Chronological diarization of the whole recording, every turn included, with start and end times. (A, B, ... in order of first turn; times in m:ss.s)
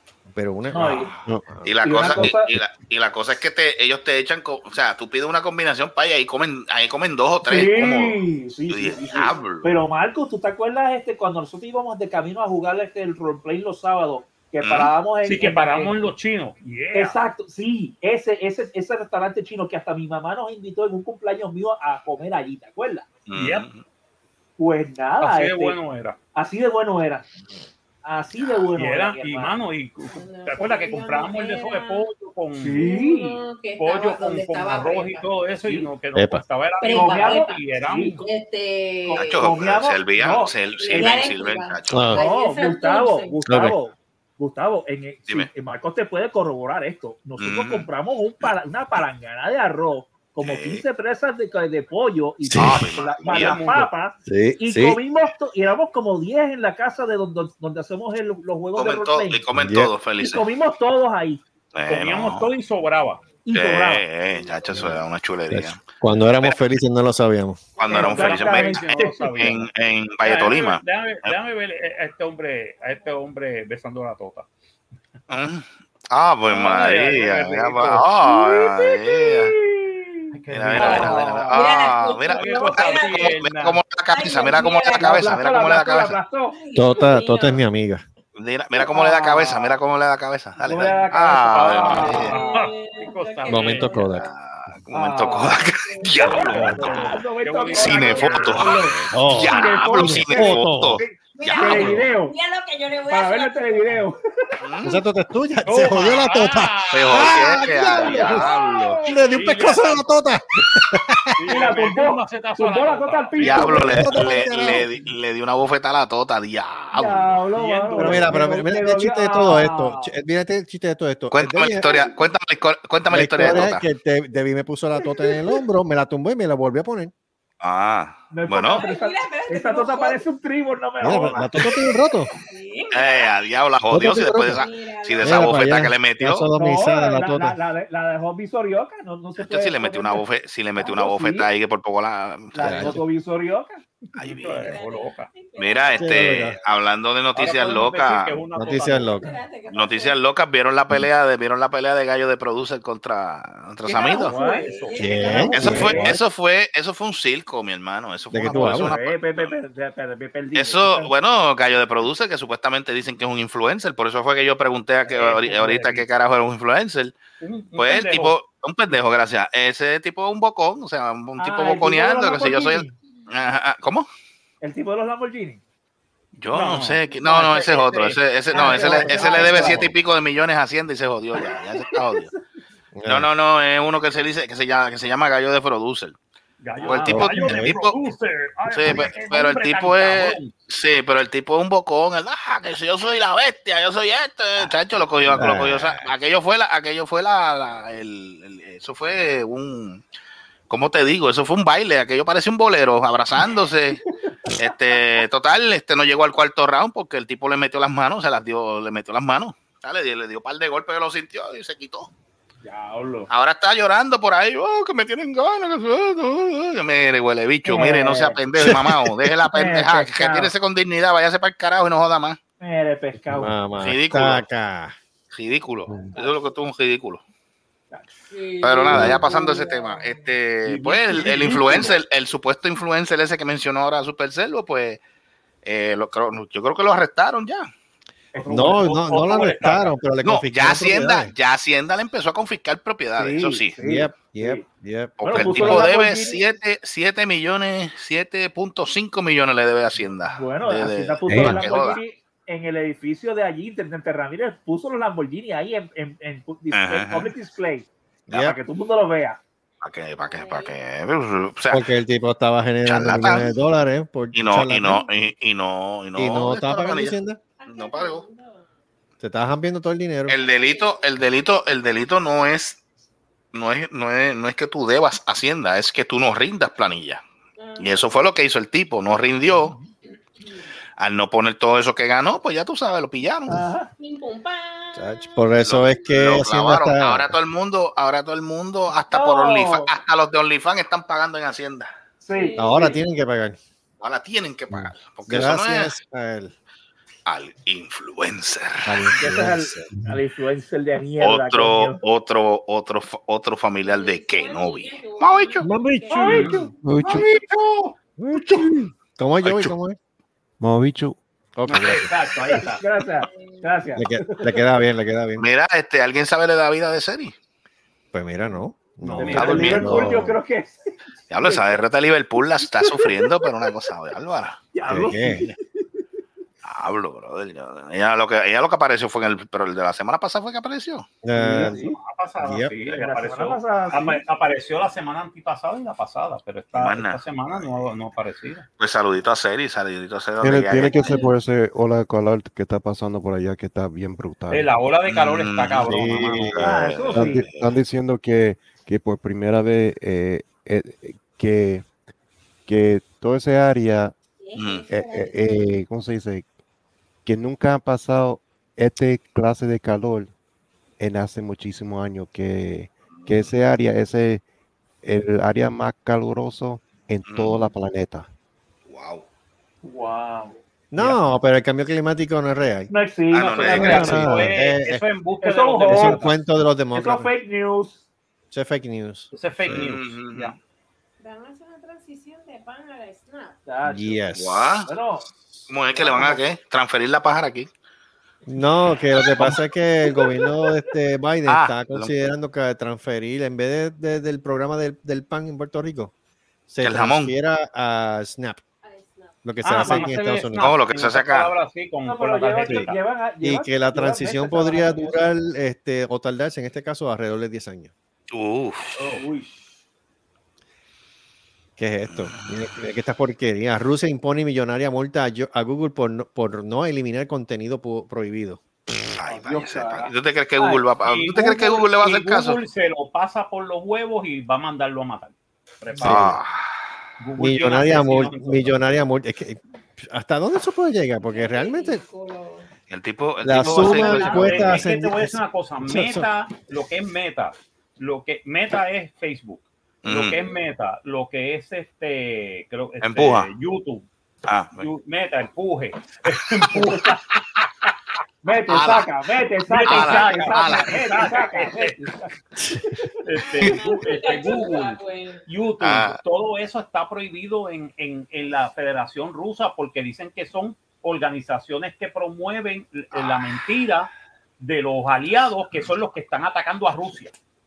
0:00.3-0:02.3 A
0:00.7-0:01.1 B
0:01.6-0:09.8 C
0:01.8-0:02.5 B
0:07.4-0:16.0 B
0:14.6-0:14.9 C
0:15.2-0:17.2 D
0:16.9-0:23.1 B
0:23.3-0:23.8 C
0:23.3-0:23.7 D
0:24.6-0:25.8 B
0:25.2-0:26.2 D
0:26.4-0:27.2 B
0:28.0-0:29.6 B
0:28.8-0:32.8 D
0:30.0-0:32.1 E
0:32.5-0:33.4 B
0:32.8-0:35.3 E
0:33.8-0:38.2 D
0:35.6-0:35.9 B
0:36.1-0:36.4 A
0:36.8-0:37.6 E
0:36.9-0:38.2 B
0:38.2-0:39.4 E
0:39.1-0:41.3 B
0:39.1-0:42.1 C
0:40.8-0:43.4 E
0:41.9-0:42.2 A
0:42.1-0:59.4 B
0:43.4-0:43.7 A
0:47.4-0:47.9 C
0:50.4-0:50.8 C
0:52.4-0:52.9 A
0:52.6-0:53.6 C
0:53.2-0:53.9 D
0:54.2-0:55.0 A
0:58.7-1:00.4 C
0:59.5-0:59.9 A
1:00.2-1:01.4 B
1:01.7-1:02.5 C
1:01.9-1:03.2 D
1:03.4-1:04.0 B
1:03.5-1:05.8 C
1:05.5-1:07.7 A
1:07.8-1:11.3 C
1:07.9-1:09.5 B
1:07.9-1:09.6 D
1:10.2-1:14.5 D
1:15.3-1:19.5 C
1:16.5-1:18.0 D
1:19.3-1:21.5 B
1:20.3-1:21.5 D
1:20.5-1:26.2 C
1:21.5-1:23.4 E
1:22.3-1:23.8 D
1:24.1-1:25.4 E
1:24.9-1:26.6 B
1:26.5-1:27.6 E
1:26.7-1:28.0 A
1:28.4-1:32.3 C
1:28.8-1:29.7 B
1:30.6-1:32.6 B
1:31.5-1:34.0 D
1:32.0-1:34.1 E
1:33.5-1:34.3 A
1:34.1-1:37.2 C
1:34.9-1:35.6 B
1:35.8-1:36.6 E
1:36.2-1:42.3 B
1:36.2-1:38.9 D
1:37.7-1:42.0 C
1:39.1-1:41.0 A
1:41.4-1:44.0 E
1:43.1-1:44.2 B
1:44.6-1:45.0 C
1:44.8-1:48.5 A
1:45.6-1:47.6 D
1:46.9-1:49.0 C
1:48.1-1:48.4 D
1:48.3-1:48.9 E
1:49.0-1:51.4 A
1:49.1-1:50.0 D
1:51.4-1:54.3 D
1:51.5-1:54.1 B
1:53.4-1:57.4 C
1:53.9-1:54.9 A
1:56.9-2:00.1 B
1:57.5-1:58.4 D
1:58.0-2:02.0 A
2:01.3-2:03.8 C
2:03.1-2:07.1 A
2:07.6-2:08.8 C
2:08.3-2:11.6 B
2:08.7-2:10.2 E
2:11.0-2:12.3 A
2:12.4-2:13.3 E
2:12.9-2:16.5 C
2:13.9-2:14.6 A
2:14.5-2:15.7 E
2:15.2-2:17.6 A
2:16.6-2:20.2 B
2:19.4-2:23.0 C
2:20.8-2:21.5 B
2:22.5-2:23.8 B
2:22.6-2:23.0 A
2:24.2-2:24.8 C
2:24.2-2:25.3 D
2:24.4-2:26.6 E
2:25.6-2:28.4 C
2:26.0-2:26.6 A
2:27.4-2:29.2 D
2:28.5-2:29.3 A
2:29.1-2:30.2 E
2:29.7-2:34.3 C
2:33.9-2:36.0 E
2:34.0-2:36.1 D
2:34.2-2:34.7 B
2:35.0-2:36.2 A
2:35.2-2:36.1 B
2:35.5-2:39.5 C
2:38.3-2:38.9 A
2:38.5-2:41.1 B
2:40.5-2:47.2 C
2:45.2-2:46.0 D
2:45.4-2:45.8 B
2:47.4-2:48.4 D
2:47.8-2:54.1 C
2:51.4-2:52.9 B
2:54.6-2:55.6 B
2:56.4-3:02.3 C
2:56.5-2:59.8 D
2:58.5-2:59.8 B
2:59.6-2:59.9 A
3:01.4-3:02.4 B
3:02.9-3:03.3 A
3:03.1-3:06.2 C
3:06.6-3:10.5 D
3:06.8-3:08.0 C
3:07.1-3:07.7 A
3:08.7-3:20.0 C
3:15.3-3:16.1 A
3:20.7-3:32.1 C
3:32.6-3:33.3 B
3:33.3-3:42.4 C
3:37.6-3:38.4 B
3:38.6-3:39.3 A
3:39.5-3:40.5 B
3:42.6-3:43.5 B
3:43.3-3:45.0 A
3:43.8-3:44.4 C
3:45.3-3:47.2 C
3:48.3-3:50.3 E
3:48.6-3:55.0 C
3:48.9-3:49.2 A
3:50.6-3:52.0 D
3:55.6-3:57.7 C
3:58.4-3:59.9 D
3:58.5-4:01.3 A
4:00.2-4:03.8 C
4:03.1-4:04.6 B
4:03.8-4:05.9 A
4:05.2-4:12.0 C
4:05.2-4:06.4 B
4:10.3-4:19.4 B
4:16.7-4:17.3 C
4:18.3-4:18.6 A
4:19.8-4:21.8 C
4:20.2-4:20.8 E
4:21.7-4:25.1 A
4:22.9-4:23.5 C
4:24.3-4:28.2 C
4:26.2-4:27.4 A
4:27.6-4:28.7 E
4:29.2-4:30.4 A
4:30.3-4:32.8 C
4:30.6-4:30.9 E
4:33.5-4:37.2 C
4:37.6-4:38.3 E
4:37.8-4:39.7 C
4:40.4-4:40.7 E
4:41.0-4:43.6 C
4:43.5-4:43.9 B
4:44.0-4:45.5 E
4:44.9-4:47.4 A
4:45.6-4:51.9 C
4:49.1-4:49.9 B
4:52.2-4:53.0 B
4:52.3-4:53.0 E
4:52.6-4:53.6 A
4:54.0-4:55.9 C
4:54.7-4:56.5 A
4:57.2-4:59.1 C
4:58.8-5:00.0 A
4:59.1-5:02.0 B
5:01.2-5:05.7 C
5:03.8-5:06.5 E
5:05.6-5:06.7 A
5:06.1-5:06.7 B
5:06.2-5:06.6 D
5:06.7-5:07.3 F
5:07.0-5:07.8 C
5:08.2-5:10.0 A
5:08.4-5:08.6 C
5:09.4-5:09.7 C
5:10.6-5:11.2 F
5:11.6-5:12.1 A
5:11.7-5:12.8 D
5:12.5-5:14.5 B
5:13.2-5:13.7 E
5:14.0-5:15.4 A
5:15.4-5:17.3 C
5:18.1-5:20.4 A
5:19.0-5:19.9 D
5:19.1-5:21.8 B
5:19.3-5:20.0 C
5:21.3-5:24.6 C
5:22.8-5:23.3 B
5:24.7-5:26.0 B
5:24.8-5:25.4 A
5:26.6-5:31.1 C
5:31.2-5:31.9 A
5:31.4-5:32.0 B
5:31.6-5:38.6 D
5:32.4-5:32.7 A
5:32.9-5:34.2 B
5:36.7-5:37.9 C
5:38.8-5:41.1 C
5:40.4-5:44.8 F
5:40.9-5:41.3 E
5:44.5-5:46.6 D
5:45.1-5:47.7 C
5:45.8-5:46.6 A
5:46.6-5:47.4 B
5:47.1-5:51.9 F
5:52.6-5:54.1 F
5:54.4-5:55.6 E
5:54.6-5:54.9 C
5:54.9-5:56.5 F
5:57.2-6:00.3 F
6:01.0-6:04.4 F
6:03.1-6:03.5 C
6:05.0-6:08.3 F
6:07.2-6:07.7 C
6:08.9-6:09.2 C
6:09.8-6:10.6 B
6:10.9-6:12.9 A
6:12.9-6:14.4 B
6:13.3-6:14.3 C
6:13.6-6:16.3 D
6:13.7-6:15.0 A
6:15.4-6:16.3 B
6:15.9-6:17.3 A
6:16.9-6:18.0 B
6:18.5-6:19.3 A
6:19.3-6:20.6 D
6:19.6-6:20.6 C
6:21.2-6:23.6 E
6:23.6-6:24.3 B
6:23.8-6:24.8 A
6:24.4-6:24.9 C
6:24.8-6:25.3 B
6:25.7-6:27.7 C
6:26.0-6:26.4 B
6:28.5-6:36.1 A
6:31.4-6:32.1 C
6:36.7-6:38.6 A
6:36.8-6:37.3 C
6:38.8-6:39.4 E
6:39.4-6:40.7 A
6:39.6-6:43.0 D
6:40.6-6:41.5 C
6:42.0-6:45.3 B
6:43.4-6:47.9 A
6:48.3-6:49.2 C
6:49.0-6:49.2 D
6:49.2-6:49.5 B
6:51.8-6:58.6 A
6:52.1-6:52.5 C
6:59.1-7:02.6 C
6:59.2-7:00.8 B
7:01.0-7:06.4 D
7:06.0-7:06.4 A
7:06.0-7:06.6 C
7:07.2-7:08.8 D
7:07.4-7:12.0 A
7:11.2-7:12.7 E
7:12.9-7:14.9 C
7:13.4-7:16.3 A
7:13.6-7:24.1 D
7:20.0-7:20.4 C
7:23.0-7:23.5 C
7:24.5-7:24.9 C
7:24.8-7:27.2 D
7:28.4-7:33.0 B
7:28.7-7:29.1 C
7:29.7-7:32.0 D
7:29.9-7:31.3 C
7:33.2-7:47.3 D
7:33.4-7:35.4 E
7:35.8-7:36.2 C
7:43.1-7:43.5 C